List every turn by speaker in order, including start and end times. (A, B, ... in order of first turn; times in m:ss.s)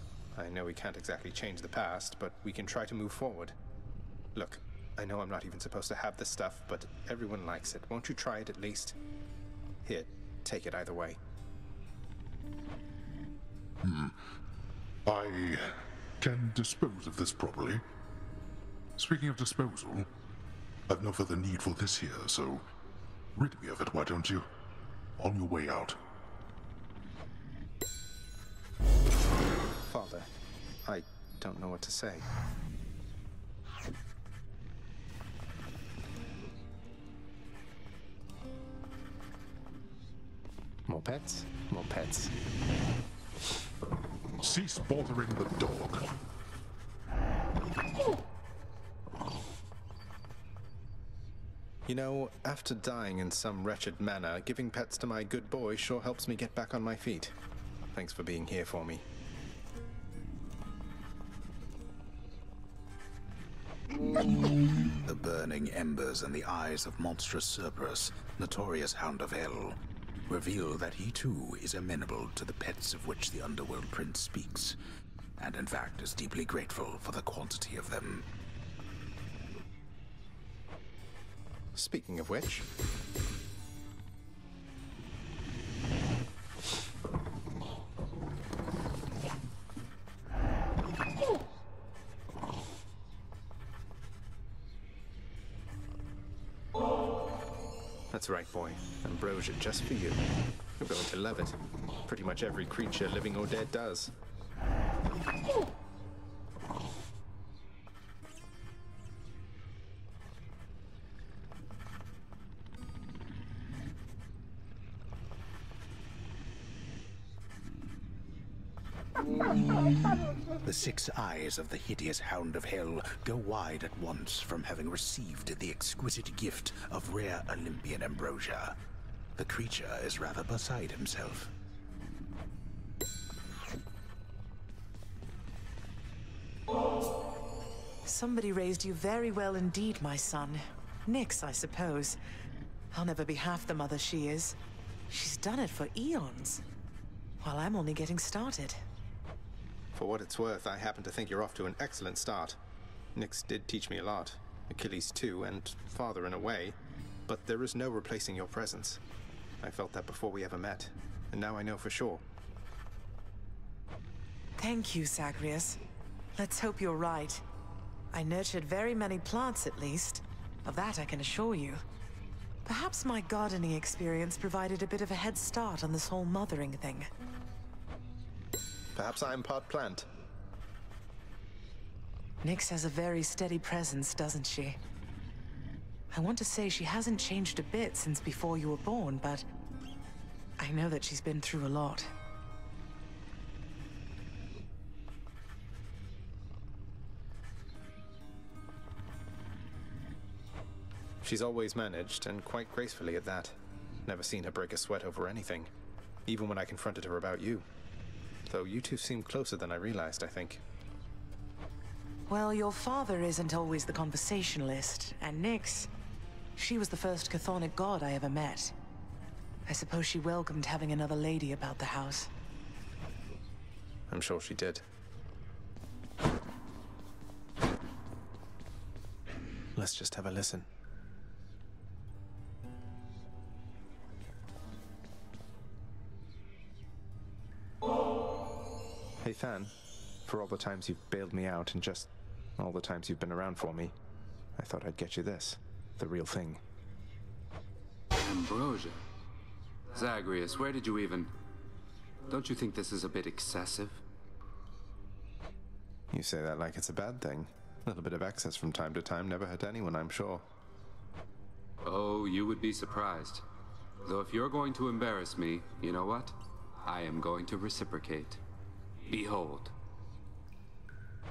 0:00.4-0:03.6 A
0:04.4-0:09.0 A
0:09.8-0:11.2 A
0:13.8-0:14.2 B
0:15.1-0:17.8 B
0:19.0-0:20.1 B
0:20.9-0:22.6 B
0:23.4-0:24.5 B
0:25.2-0:26.0 B
0:29.9-0:30.3 A
0:30.8-0:32.3 A
0:40.9-0:42.3 A
0:44.4-0:46.1 B
0:51.9-0:57.4 A
0:57.9-0:59.0 A
1:05.0-1:14.8 C
1:15.4-1:18.3 C
1:21.8-1:22.7 A
1:38.1-1:40.2 A
1:40.8-1:44.1 A
2:00.6-2:08.8 C
2:09.4-2:11.5 C
2:18.0-2:22.2 D
2:22.9-2:24.6 D
2:25.1-2:26.6 D
2:27.4-2:28.8 D
2:30.0-2:32.6 A
2:33.2-2:39.0 A
2:39.6-2:42.2 A
2:44.6-2:45.8 D
2:46.4-2:47.4 D
2:48.1-2:51.8 D
2:52.7-2:57.1 D
2:58.9-3:00.1 A
3:02.4-3:04.8 D
3:06.1-3:09.4 D
3:10.6-3:12.1 D
3:21.2-3:25.7 A
3:26.3-3:27.7 A
3:28.5-3:30.6 A
3:32.3-3:35.9 D
3:36.6-3:38.7 D
3:39.7-3:42.3 D
3:44.1-3:44.8 A
3:49.8-3:50.7 A
3:59.2-3:59.8 A
4:00.3-4:04.0 A
4:04.6-4:06.6 A
4:08.2-4:09.0 E
4:09.9-4:11.3 E
4:12.3-4:14.0 E
4:16.1-4:20.4 A
4:21.8-4:23.4 E
4:24.0-4:28.4 E
4:29.1-4:29.7 E